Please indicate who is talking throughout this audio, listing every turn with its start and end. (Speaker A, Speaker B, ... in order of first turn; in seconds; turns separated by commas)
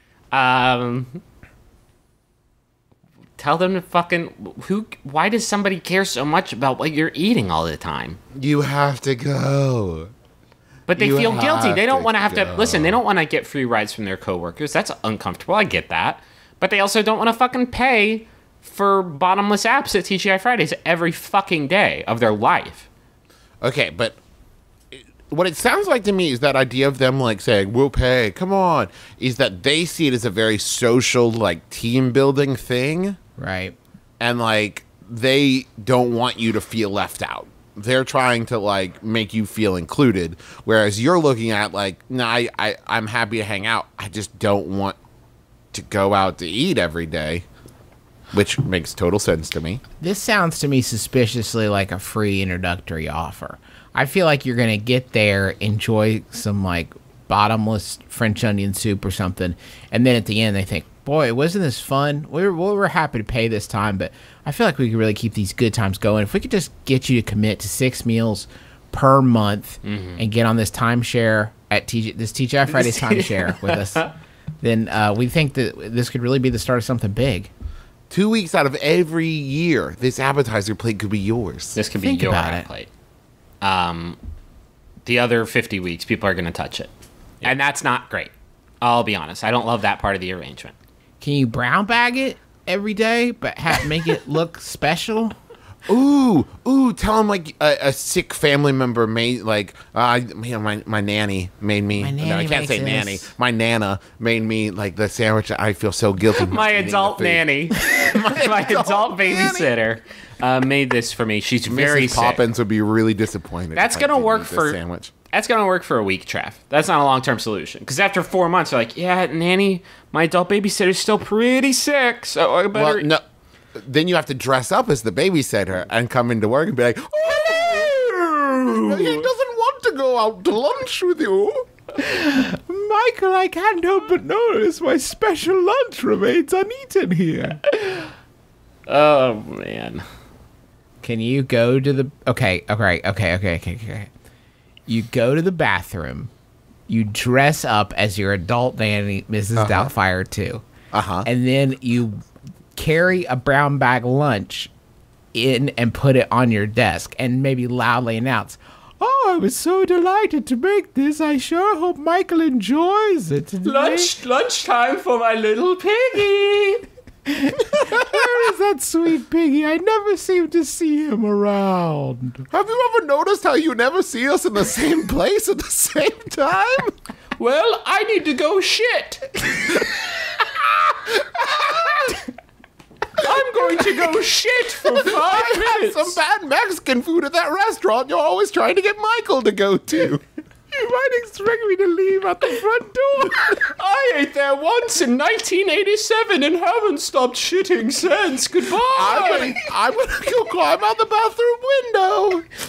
Speaker A: 0.3-1.2, Speaker A: 3.4-8.2, Speaker B: 8.3-10.1, Speaker A: 10.9-22.9, Speaker B: 10.9-13.0, Speaker B: 23.6-24.2, Speaker B: 24.9-33.2, Speaker C: 33.4-33.8, Speaker B: 34.2-45.0, Speaker B: 45.7-47.4, Speaker B: 48.3-49.8, Speaker C: 50.0-74.1, Speaker A: 69.9-70.2, Speaker A: 72.7-74.1, Speaker C: 74.6-77.5, Speaker B: 78.1-81.8, Speaker A: 81.8-82.9, Speaker C: 82.0-82.7, Speaker A: 83.6-84.2, Speaker A: 85.0-86.9, Speaker A: 87.4-90.7, Speaker C: 91.2-95.3, Speaker B: 95.9-109.7, Speaker C: 102.0-103.3, Speaker A: 106.3-112.4, Speaker B: 111.7-115.1, Speaker A: 113.7-114.8, Speaker A: 115.3-123.1, Speaker B: 122.7-123.2, Speaker B: 123.8-131.6, Speaker A: 127.3-129.3, Speaker C: 132.0-138.0, Speaker A: 138.9-140.0, Speaker C: 141.0-144.1, Speaker C: 144.9-146.3, Speaker C: 146.9-150.6, Speaker B: 149.6-149.9, Speaker B: 150.9-151.2, Speaker C: 151.2-152.2, Speaker C: 152.8-154.7, Speaker C: 155.3-164.1, Speaker A: 163.6-166.8, Speaker C: 167.3-172.4, Speaker B: 172.5-176.9, Speaker A: 177.4-179.8, Speaker A: 183.2-186.2, Speaker B: 184.9-190.2, Speaker C: 190.7-193.6, Speaker A: 193.6-199.6, Speaker B: 198.9-202.4